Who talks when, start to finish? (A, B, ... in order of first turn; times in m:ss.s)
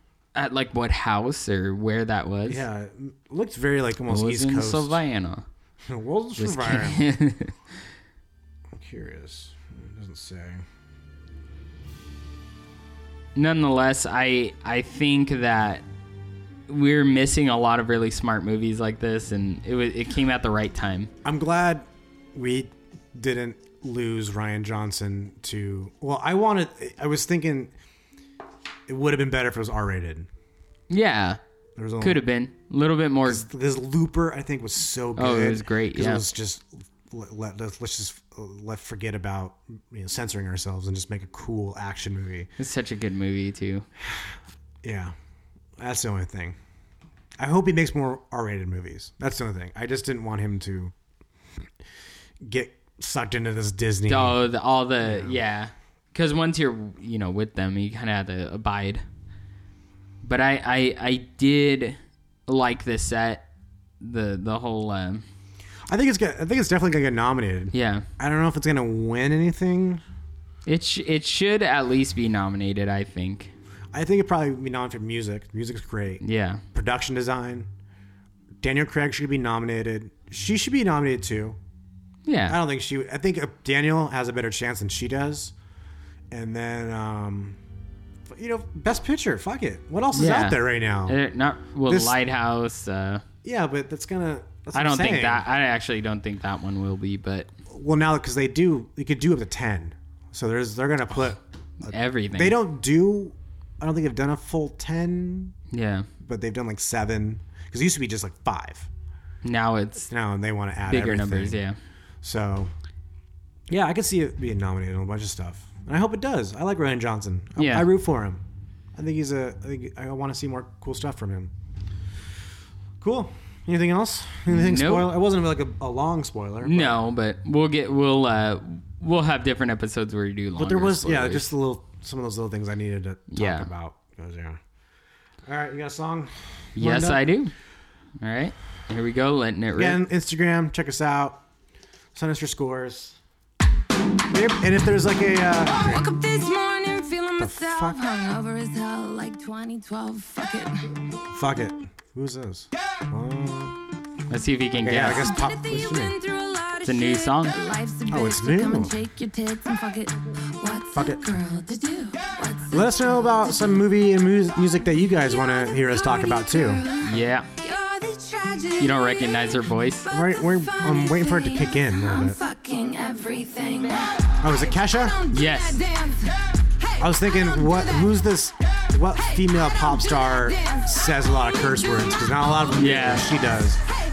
0:00.4-0:02.6 A
0:02.5-0:05.0 B
0:04.1-0:05.4 A
0:05.9-0:07.0 B
0:06.4-0:07.6 A
0:08.7-0:10.6 B
0:13.4-0:15.8 A
0:16.7-0:21.1 A
0:21.2-0:27.7 B
0:28.9-0:30.3 B
0:30.9-0:31.4 A
0:31.8-0:32.2 B
0:32.0-0:33.5 A
0:33.3-0:42.5 B
0:35.2-0:36.2 A
0:42.6-0:43.9 A
0:44.0-0:45.1 B
0:45.8-0:46.6 B
0:47.4-0:50.9 B
0:52.4-0:54.4 B
0:54.1-0:59.0 A
0:55.0-0:55.4 B
1:00.2-1:03.5 A
1:04.0-1:05.2 A
1:05.9-1:10.0 B
1:07.7-1:08.1 A
1:10.7-1:13.5 A
1:13.9-1:16.2 B
1:16.2-1:16.6 A
1:16.7-1:17.7 B
1:18.6-1:21.6 B
1:22.3-1:22.6 A
1:22.5-1:25.5 B
1:26.3-1:27.6 B
1:28.3-1:31.2 B
1:30.1-1:33.2 A
1:31.9-1:32.2 B
1:33.4-1:35.5 B
1:34.7-1:37.5 A
1:37.7-1:45.6 B
1:41.8-1:42.6 A
1:45.7-1:46.1 A
1:46.2-1:48.9 B
1:49.4-1:50.1 A
1:50.1-1:51.6 B
1:50.9-1:51.8 A
1:52.2-1:52.7 B
1:53.7-1:58.4 B
1:57.6-1:57.9 A
1:59.0-2:01.5 B
2:03.0-2:07.0 B
2:04.5-2:05.1 A
2:06.6-2:11.5 A
2:10.6-2:14.6 B
2:13.3-2:13.7 A
2:15.5-2:17.3 B
2:16.8-2:17.5 A
2:18.2-2:20.0 A
2:19.8-2:21.4 B
2:22.2-2:23.2 B
2:24.3-2:26.1 B
2:25.8-2:31.0 C
2:27.4-2:28.0 B
2:31.3-2:33.8 B
2:34.3-2:35.3 A
2:34.8-2:36.2 B
2:35.0-2:43.8 C
2:36.8-2:37.6 A
2:38.1-2:38.9 B
2:40.9-2:41.2 B
2:42.7-2:46.8 B
2:45.1-2:56.4 C
2:47.0-2:47.5 A
2:48.8-2:50.1 A
2:50.1-2:52.4 B
2:54.4-2:55.2 B
2:55.3-2:55.8 A
2:57.0-3:03.8 B
3:00.1-3:00.8 C
3:02.8-3:03.3 A